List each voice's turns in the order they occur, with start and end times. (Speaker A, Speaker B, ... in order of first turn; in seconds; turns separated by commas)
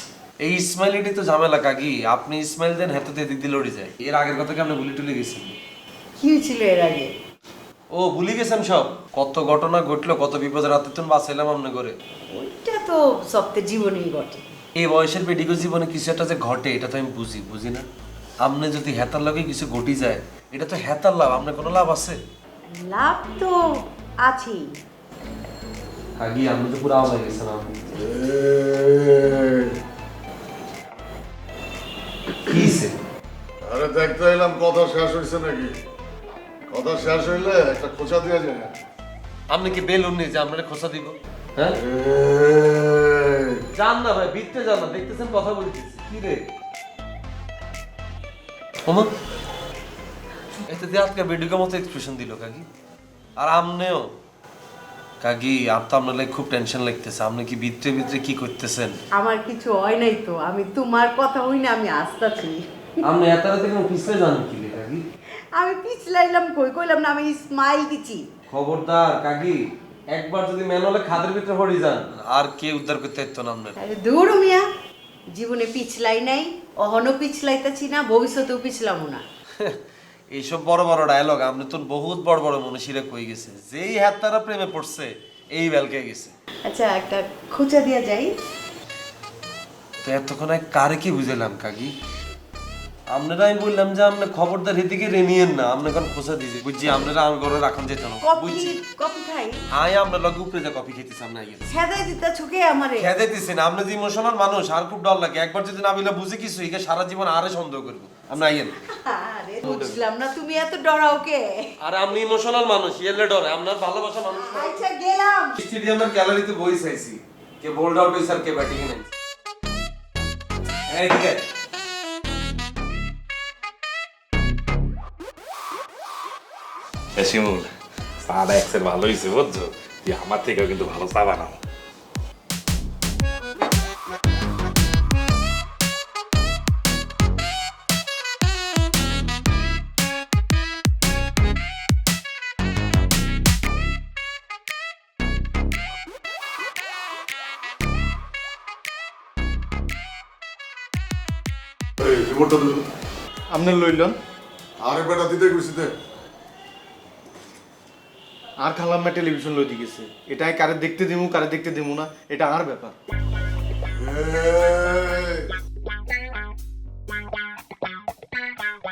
Speaker A: 0.4-5.6, Speaker B: 6.2-7.1, Speaker A: 7.9-12.0, Speaker B: 12.3-14.6, Speaker A: 14.7-17.9, Speaker A: 18.4-22.2, Speaker B: 22.7-24.8, Speaker A: 26.2-27.8, Speaker C: 27.9-29.7, Speaker A: 32.4-33.0, Speaker C: 33.6-35.8, Speaker C: 36.7-38.7, Speaker A: 39.5-41.8, Speaker C: 41.7-43.6, Speaker A: 43.7-46.5, Speaker A: 48.8-49.1, Speaker A: 50.6-52.7, Speaker A: 53.4-54.1, Speaker A: 55.2-59.0, Speaker B: 59.1-62.6, Speaker A: 63.0-65.0, Speaker B: 65.5-68.3, Speaker A: 68.5-73.8, Speaker B: 73.8-74.7, Speaker B: 75.3-79.2, Speaker A: 80.3-86.3, Speaker B: 86.7-88.3, Speaker A: 90.0-91.9, Speaker A: 93.1-98.7, Speaker B: 98.2-99.6, Speaker A: 99.7-101.7, Speaker B: 101.7-103.1, Speaker A: 103.0-108.8, Speaker B: 108.8-111.7, Speaker A: 109.6-110.0, Speaker A: 111.8-114.8, Speaker B: 114.3-115.5, Speaker A: 115.5-119.1, Speaker A: 120.9-121.4, Speaker D: 127.2-131.6, Speaker C: 152.0-152.8, Speaker E: 153.5-154.2, Speaker C: 154.8-155.9, Speaker E: 158.6-162.9, Speaker C: 163.9-165.5